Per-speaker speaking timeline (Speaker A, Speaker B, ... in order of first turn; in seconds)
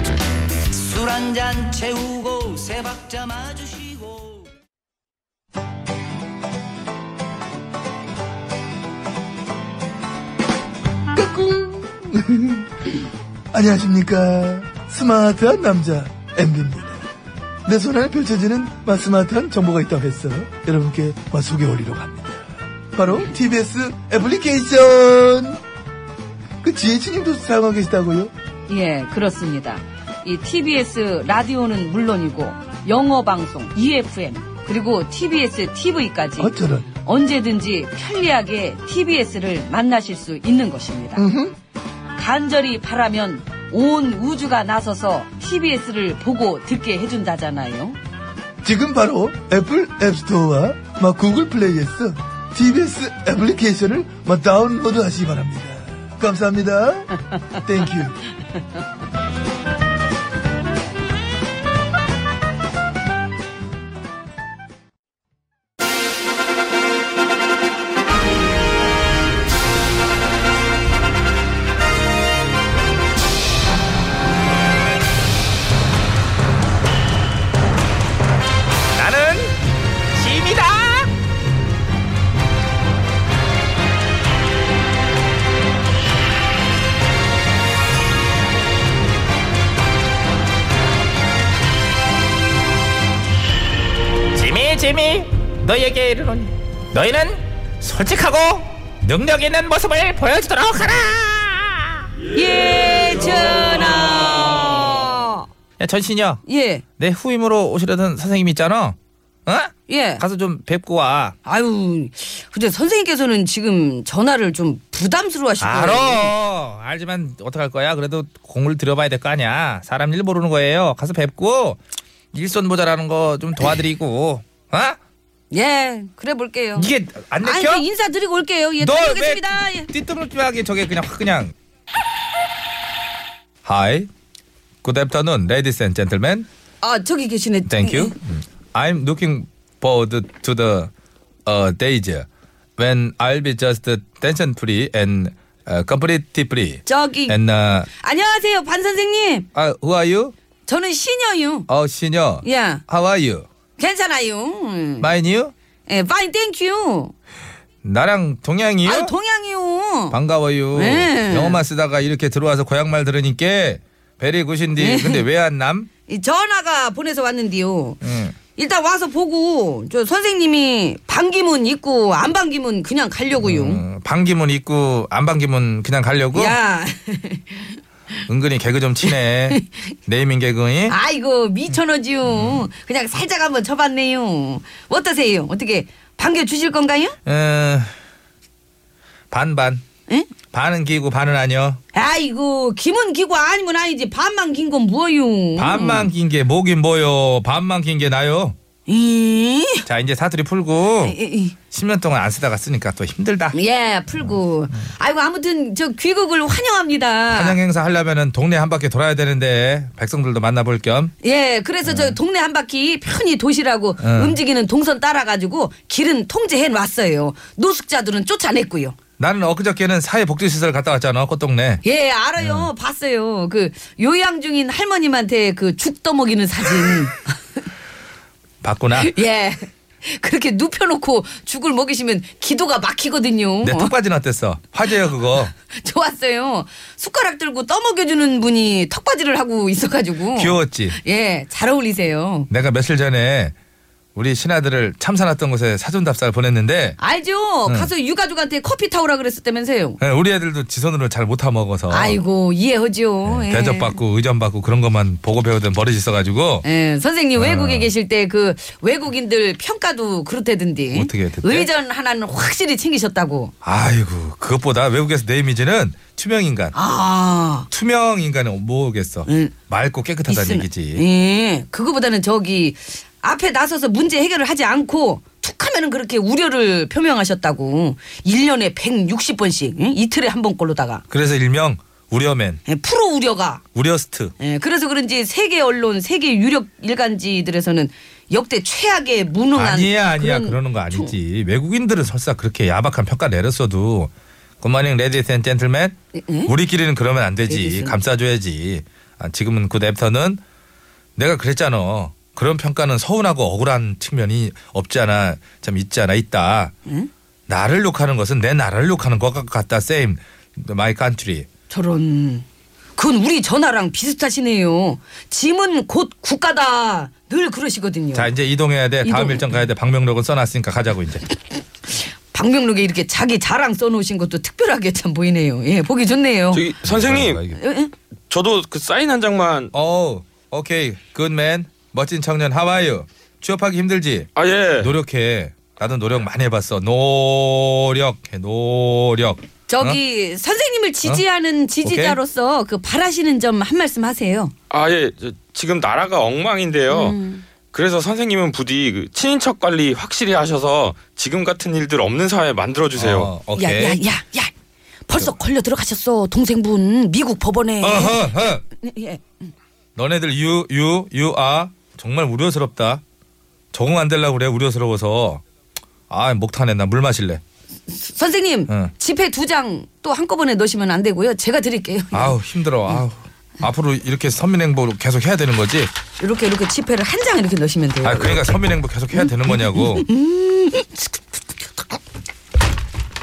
Speaker A: 0.8-4.5
Speaker B: 11.1-12.7, 13.5-17.0, 17.7-25.6, 26.6-28.3, 36.4-36.9, 41.2-41.5, 48.6-58.2
Speaker C: 28.7-41.2, 42.2-48.0, 102.3-105.5, 106.5-106.8, 109.9-110.2, 111.5-116.3, 125.5-126.9, 127.4-129.9, 136.8-138.1, 146.9-149.5, 150.7-151.7, 152.4-152.8, 153.8-155.1, 155.9-157.1, 158.8-160.2, 160.7-161.6, 164.8-165.2, 166.1-168.0, 168.6-173.8, 176.3-177.8, 179.1-179.6, 180.9-187.2, 191.9-196.1, 198.9-199.9, 201.0-201.6, 203.5-207.6, 211.2-219.0, 221.8-227.4, 228.9-233.9, 235.4-242.5, 247.0-250.0, 251.9-254.0, 256.6-263.5, 266.8-267.7, 269.3-269.6, 270.3-281.0, 282.7-283.6, 284.4-291.1, 296.1-296.5, 297.5-298.0, 311.7-312.4, 313.0-318.3, 319.0-319.6, 321.9-326.7, 327.6-327.9, 339.7-344.5, 346.9-347.4, 353.6-354.5, 355.1-359.2, 367.9-372.4, 376.2-378.6, 379.1-381.9
Speaker D: 79.0-79.6, 80.1-81.1, 94.3-102.0, 105.8-106.4, 107.0-111.4, 115.6-121.8, 122.3-125.0, 126.8-127.8, 128.8-131.5, 133.6-134.1, 134.8-136.5, 137.7-140.9, 141.5-147.9, 149.5-150.3, 151.7-153.5, 155.0-155.5, 157.8-159.1, 160.1-165.9, 168.0-168.4, 173.4-176.6, 178.3-180.9, 182.3-182.6, 187.2-187.9, 189.3-189.8, 190.5-191.8, 195.6-198.6, 199.9-201.2, 201.7-203.6, 207.3-211.1, 211.8-212.2, 214.0-214.4, 219.2-221.8, 222.4-222.7, 228.6-229.1, 233.6-235.5, 240.4-241.0, 242.5-243.6, 244.1-247.0, 250.0-252.2, 253.2-256.6, 257.4-257.9, 260.9-261.7, 263.6-266.8, 267.7-271.0, 281.1-282.6, 283.7-284.3, 289.5-300.4, 301.2-306.7, 307.5-311.5, 318.1-321.2, 326.8-327.6, 329.7-340.0, 341.8-342.2, 352.9-354.0, 357.8-358.6, 360.0-363.0, 363.7-365.4, 366.1-367.4, 372.1-375.9, 378.0-380.1
Speaker E: 326.5-327.4, 328.3-329.7, 334.4-334.9, 344.7-347.2, 347.7-353.3